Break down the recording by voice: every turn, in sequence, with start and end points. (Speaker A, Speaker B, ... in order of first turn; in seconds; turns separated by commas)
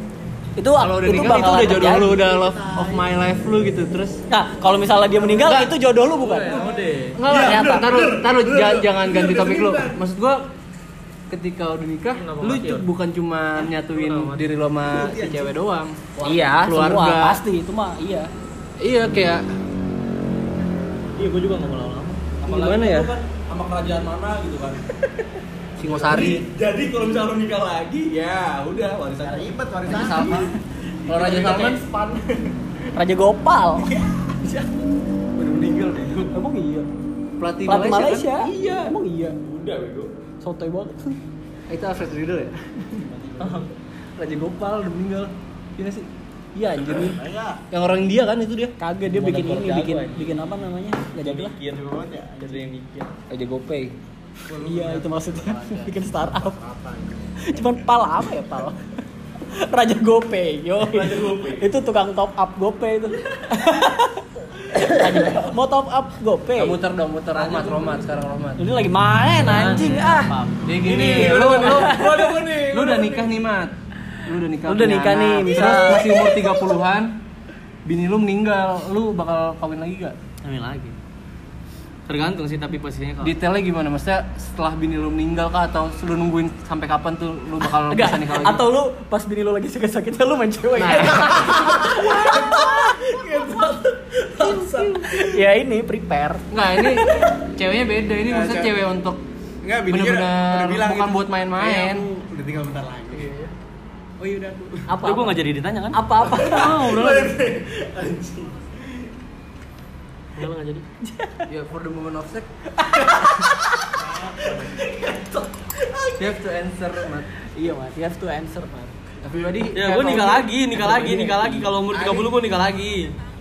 Speaker A: 0.6-2.2, Speaker B: 0.8-4.2, Speaker C: 2.2-2.9, Speaker A: 4.3-6.6, Speaker B: 5.4-5.7, Speaker D: 6.2-7.2, Speaker E: 6.4-10.0, Speaker B: 7.2-10.4, Speaker A: 7.5-7.7, Speaker B: 11.3-16.0, Speaker D: 12.1-12.8, Speaker D: 13.7-14.5, Speaker E: 14.9-15.5, Speaker E: 16.2-16.6, Speaker A: 16.2-18.3, Speaker B: 16.6-17.4, Speaker B: 18.8-19.4, Speaker E: 21.2-21.7, Speaker D: 21.2-22.3, Speaker E: 22.2-24.8, Speaker B: 22.5-23.1, Speaker B: 25.8-26.4, Speaker E: 25.8-30.4, Speaker C: 29.2-30.5, Speaker B: 29.9-30.5, Speaker E: 31.0-32.6, Speaker B: 31.2-31.8, Speaker A: 32.9-33.9, Speaker E: 33.9-34.4, Speaker A: 35.4-35.8, Speaker E: 35.5-36.3, Speaker A: 36.3-36.9, Speaker B: 37.4-38.4, Speaker A: 37.7-39.4, Speaker E: 38.4-40.1, Speaker A: 40.4-41.2, Speaker B: 41.7-43.1, Speaker C: 43.0-43.7, Speaker E: 43.4-43.7, Speaker B: 44.2-46.1, Speaker A: 46.5-47.2, Speaker C: 46.9-47.6, Speaker B: 47.7-48.7, Speaker A: 48.8-51.5, Speaker E: 49.1-50.4, Speaker E: 51.1-51.7, Speaker C: 51.5-52.7, Speaker E: 52.4-53.1, Speaker B: 53.3-53.9, Speaker C: 54.5-57.3, Speaker A: 54.6-56.6, Speaker A: 57.4-58.8, Speaker A: 59.5-64.2, Speaker E: 60.9-61.7, Speaker E: 64.7-65.5, Speaker A: 64.8-66.8, Speaker B: 66.5-68.6, Speaker E: 67.3-67.9, Speaker A: 68.6-70.3, Speaker D: 69.4-70.7, Speaker B: 70.7-77.1, Speaker E: 70.8-73.3, Speaker A: 71.7-72.2, Speaker A: 74.6-76.1, Speaker E: 75.5-76.6, Speaker B: 77.8-80.2, Speaker D: 80.4-80.9, Speaker D: 82.0-83.3, Speaker B: 83.2-88.7, Speaker A: 87.9-93.0, Speaker E: 91.0-95.4, Speaker A: 94.4-97.3, Speaker B: 96.5-99.2, Speaker C: 98.3-98.8, Speaker C: 99.6-103.3, Speaker B: 99.9-102.0, Speaker C: 104.2-104.8, Speaker A: 104.9-105.4, Speaker D: 105.0-107.4, Speaker A: 105.9-107.0, Speaker E: 106.4-108.6, Speaker C: 106.8-107.2, Speaker D: 110.3-110.8, Speaker A: 111.0-111.5, Speaker B: 111.5-112.5, Speaker C: 114.0-114.8, Speaker E: 114.4-116.2, Speaker B: 116.1-117.3, Speaker A: 117.5-118.9, Speaker B: 119.2-122.1, Speaker D: 119.7-123.1, Speaker E: 121.9-122.2